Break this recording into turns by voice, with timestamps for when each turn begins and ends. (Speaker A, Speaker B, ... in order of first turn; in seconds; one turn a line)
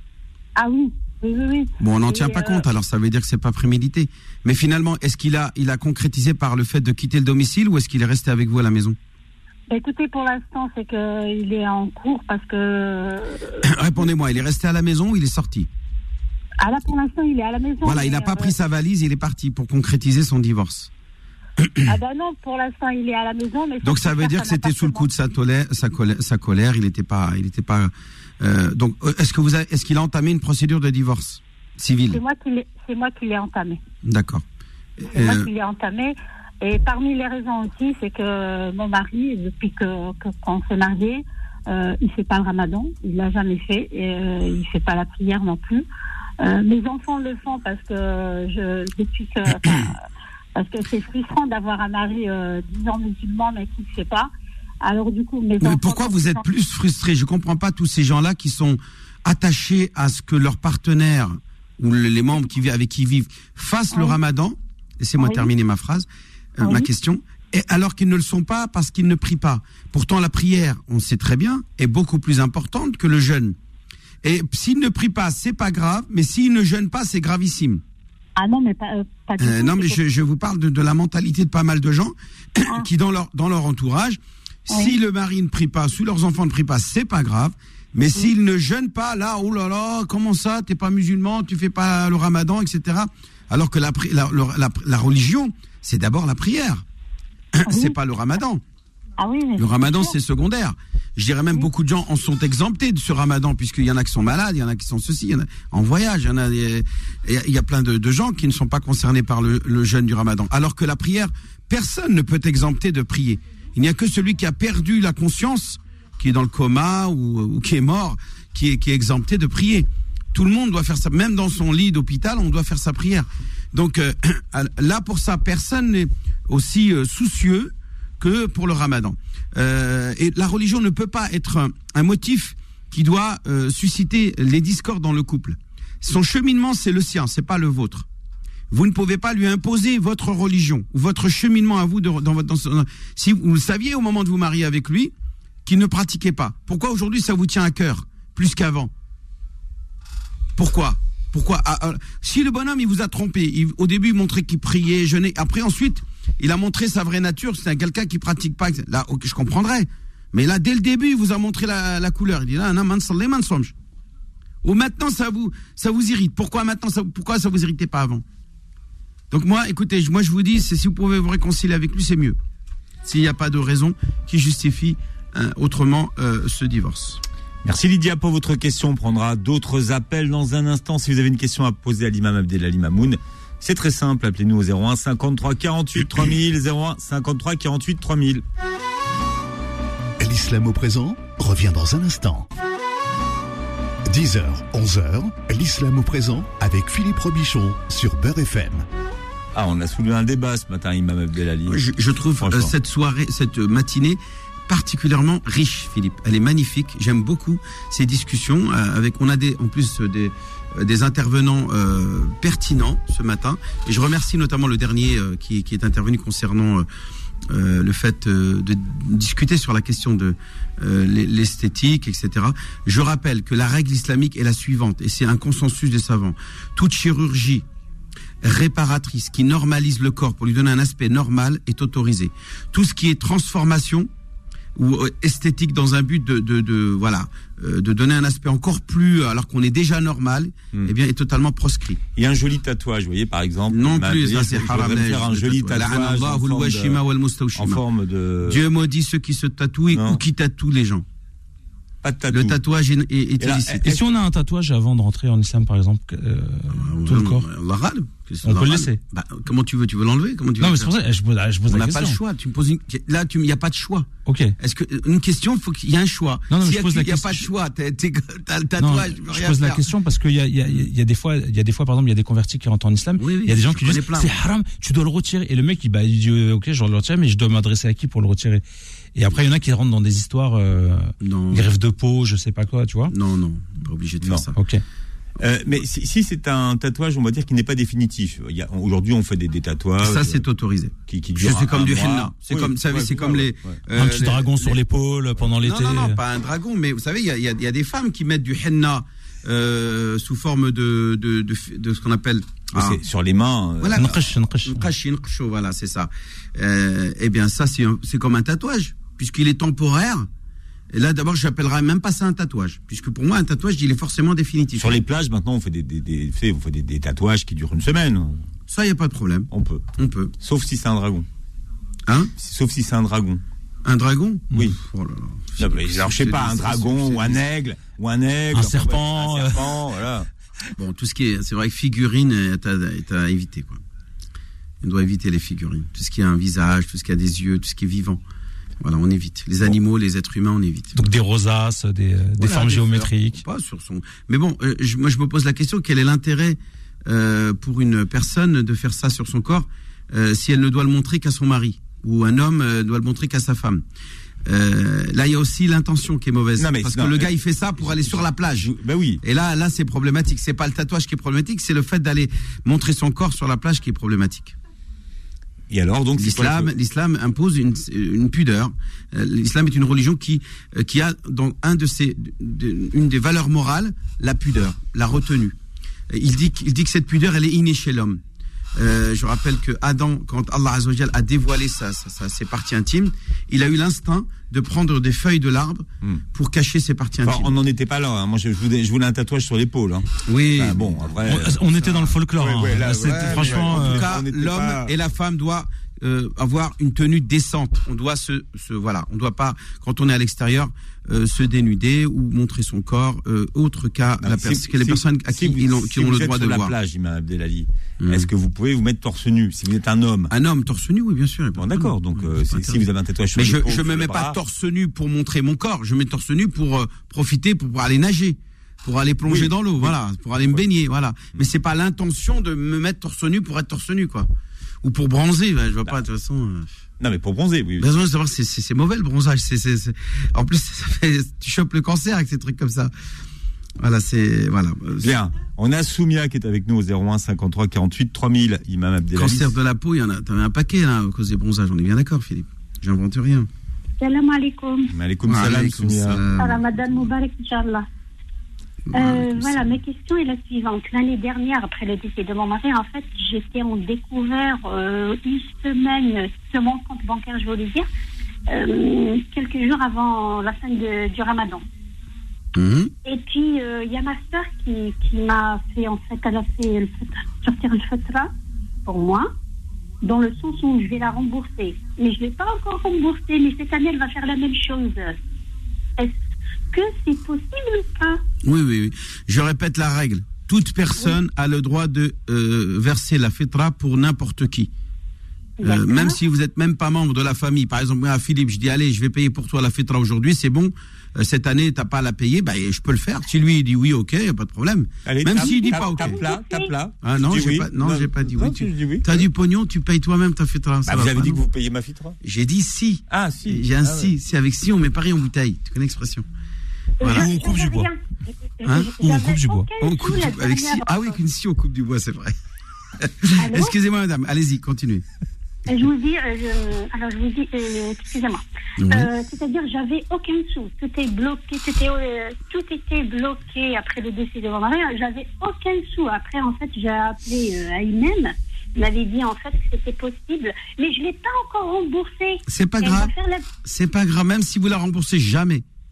Speaker A: 0.6-2.6
Speaker B: 1.8-9.0
Speaker A: 9.7-13.6
Speaker B: 13.6-15.7
Speaker A: 16.6-18.5
Speaker B: 17.8-20.9
Speaker A: 21.9-25.1
Speaker B: 23.8-32.2
Speaker A: 32.1-33.8
Speaker B: 34.0-34.4
Speaker B: 35.0-35.5
Speaker A: 35.1-45.9
Speaker A: 46.4-49.9
Speaker A: 50.6-54.3
Speaker A: 54.8-56.4
Speaker B: 55.6-66.1
Speaker A: 65.2-65.5
Speaker B: 66.6-73.5
Speaker A: 66.6-66.9
Speaker B: 74.2-77.8
Speaker A: 78.4-80.0
Speaker B: 79.4-96.8
Speaker A: 84.7-85.0
Speaker B: 97.5-98.6
Speaker A: 97.7-97.9
Speaker A: 99.2-100.1
Speaker B: 99.5-138.1
Speaker B: 138.7-145.1
Speaker B: 145.6-148.9
Speaker B: 150.6-163.7
Speaker B: 164.6-168.2
Speaker B: 169.3-172.4
Speaker B: 173.0-177.2
Speaker C: 177.6-188.4
Speaker D: 190.2-192.5
Speaker D: 194.1-198.9
Speaker C: 199.5-201.8
Speaker B: 201.7-216.9
Speaker C: 202.4-202.7
Speaker B: 217.5-227.6
Speaker B: 228.4-234.1
Speaker B: 234.8-242.0
Speaker C: 242.2-247.0
Speaker B: 243.7-247.8
Speaker C: 247.6-248.6
Speaker B: 248.4-251.0
Speaker C: 249.9-250.2
Speaker C: 252.0-252.6
Speaker B: 252.3-253.9
Speaker C: 253.4-254.2
Speaker E: 253.8-257.4
Speaker B: 256.7-260.9
Speaker E: 258.4-259.0
Speaker E: 260.6-262.2
Speaker B: 261.7-269.8
Speaker E: 264.2-264.5
Speaker E: 266.5-267.5
Speaker E: 268.8-278.6
Speaker B: 273.2-274.3
Speaker E: 279.1-283.1
Speaker B: 281.2-281.6
Speaker B: 283.1-284.6
Speaker E: 284.5-284.8
Speaker C: 285.4-290.4
Speaker B: 290.0-294.8
Speaker C: 291.1-293.8
Speaker E: 293.9-296.2
Speaker B: 295.6-303.0
Speaker C: 302.7-304.1
Speaker B: 303.8-310.3
Speaker E: 303.9-304.9
Speaker B: 310.9-315.0
Speaker C: 314.7-318.4
Speaker B: 318.7-320.3
Speaker C: 319.5-319.9
Speaker C: 320.4-321.2
Speaker C: 322.4-323.4
Speaker B: 323.9-327.4
Speaker C: 325.6-330.3
Speaker E: 328.5-329.8
Speaker B: 330.8-333.8
Speaker B: 334.8-338.2
Speaker B: 338.8-341.0
Speaker E: 340.9-343.4
Speaker B: 342.4-353.8
Speaker B: 354.4-364.5
Speaker C: 356.6-359.2
Speaker C: 365.7-366.7
Speaker B: 366.2-375.5
Speaker B: 376.1-378.2
Speaker B: 378.8-387.5
Speaker C: 387.2-394.9
Speaker B: 390.2-391.1
Speaker E: 391.2-394.1
Speaker B: 391.8-392.1
Speaker B: 393.1-406.7
Speaker C: 404.2-410.3
Speaker B: 408.0-408.3
Speaker B: 410.3-424.3
Speaker C: 411.6-414.4
Speaker C: 419.2-419.9
Speaker B: 424.8-426.7
Speaker C: 427.0-427.9
Speaker B: 427.8-432.9
Speaker B: 433.8-435.1
Speaker C: 435.0-439.5
Speaker B: 439.1-443.5
Speaker F: 444.0-444.9
Speaker C: 444.9-446.2
Speaker B: 445.2-447.1
Speaker F: 446.4-447.9
Speaker B: 448.9-449.8
Speaker F: 448.9-457.9
Speaker F: 458.5-461.6
Speaker B: 462.5-462.9
Speaker F: 463.0-468.3
Speaker F: 468.9-469.3
Speaker F: 470.0-475.2
Speaker F: 476.7-478.2
Speaker B: 478.4-484.7
Speaker F: 485.6-486.2
Speaker B: 485.6-496.2
Speaker C: 495.0-499.3
Speaker F: 495.4-496.7
Speaker B: 497.0-501.4
Speaker C: 500.9-502.2
Speaker B: 502.2-506.2
Speaker C: 503.1-504.1
Speaker F: 507.0-511.1
Speaker B: 507.0-507.4
Speaker E: 507.1-507.9
Speaker B: 508.6-512.3
Speaker E: 509.1-509.7
Speaker B: 513.0-515.0
Speaker F: 513.4-513.8
Speaker F: 515.7-533.5
Speaker B: 518.8-519.1
Speaker B: 532.5-533.1
Speaker B: 533.6-535.6